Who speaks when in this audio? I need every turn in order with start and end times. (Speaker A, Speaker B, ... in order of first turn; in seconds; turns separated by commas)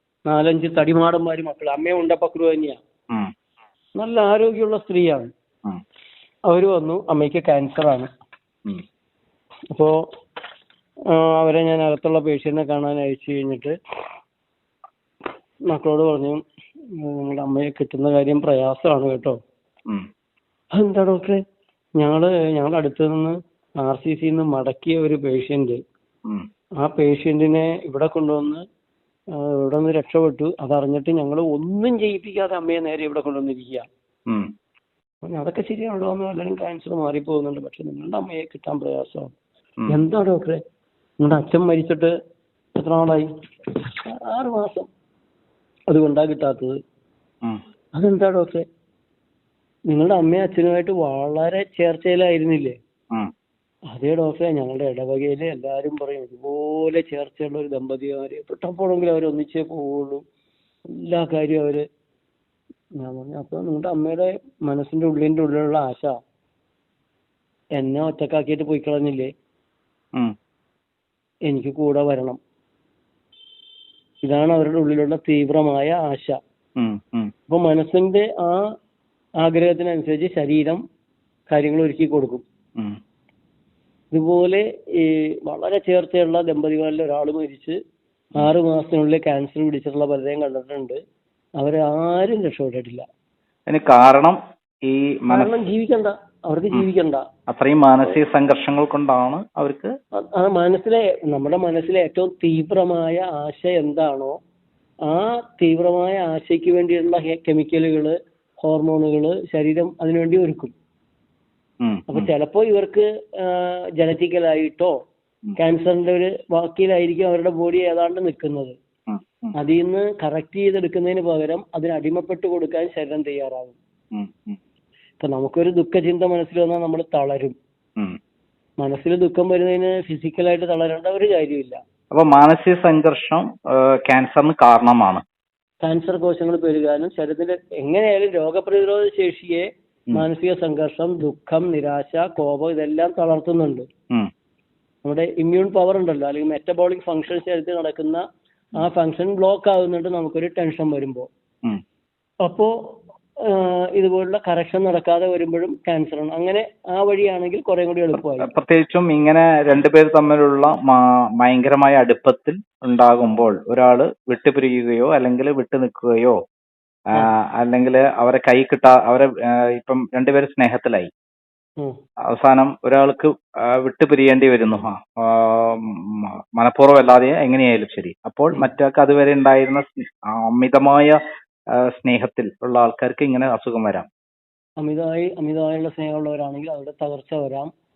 Speaker A: 0.3-2.8, Speaker A: 4.0-5.3, Speaker A: 6.5-8.1, Speaker A: 11.1-13.8, Speaker A: 15.7-16.4, Speaker A: 16.9-19.4, Speaker A: 20.7-21.4, Speaker A: 22.0-25.8, Speaker A: 26.8-28.6, Speaker A: 29.4-33.9, Speaker A: 35.2-39.3, Speaker A: 39.9-40.6, Speaker A: 41.2-42.1, Speaker A: 42.8-43.3, Speaker A: 44.1-44.9, Speaker A: 45.9-46.8, Speaker A: 48.0-48.6, Speaker A: 49.9-52.8, Speaker A: 53.9-60.2, Speaker A: 61.0-61.8, Speaker A: 63.0-66.2, Speaker A: 67.8-69.3, Speaker A: 71.5-72.4, Speaker A: 74.2-76.4, Speaker B: 76.8-77.3, Speaker A: 77.5-78.7, Speaker A: 79.4-80.8, Speaker A: 81.5-82.5, Speaker A: 84.1-87.8, Speaker A: 88.4-91.0, Speaker A: 91.6-93.0, Speaker B: 93.7-95.5, Speaker A: 95.3-97.3, Speaker B: 97.5-99.9, Speaker A: 100.2-104.3, Speaker A: 105.1-110.7, Speaker B: 111.8-112.3, Speaker A: 112.1-114.9, Speaker A: 115.6-118.8, Speaker B: 119.1-119.5, Speaker A: 119.5-123.8, Speaker B: 124.1-124.6, Speaker A: 125.2-127.5, Speaker A: 128.8-131.8, Speaker B: 132.1-135.2, Speaker A: 135.8-143.9, Speaker A: 145.0-148.2, Speaker A: 148.8-151.3, Speaker A: 152.4-152.7, Speaker A: 153.5-158.5, Speaker B: 158.1-166.4, Speaker B: 167.2-171.1, Speaker B: 172.3-181.2, Speaker B: 181.8-184.1, Speaker A: 184.8-187.7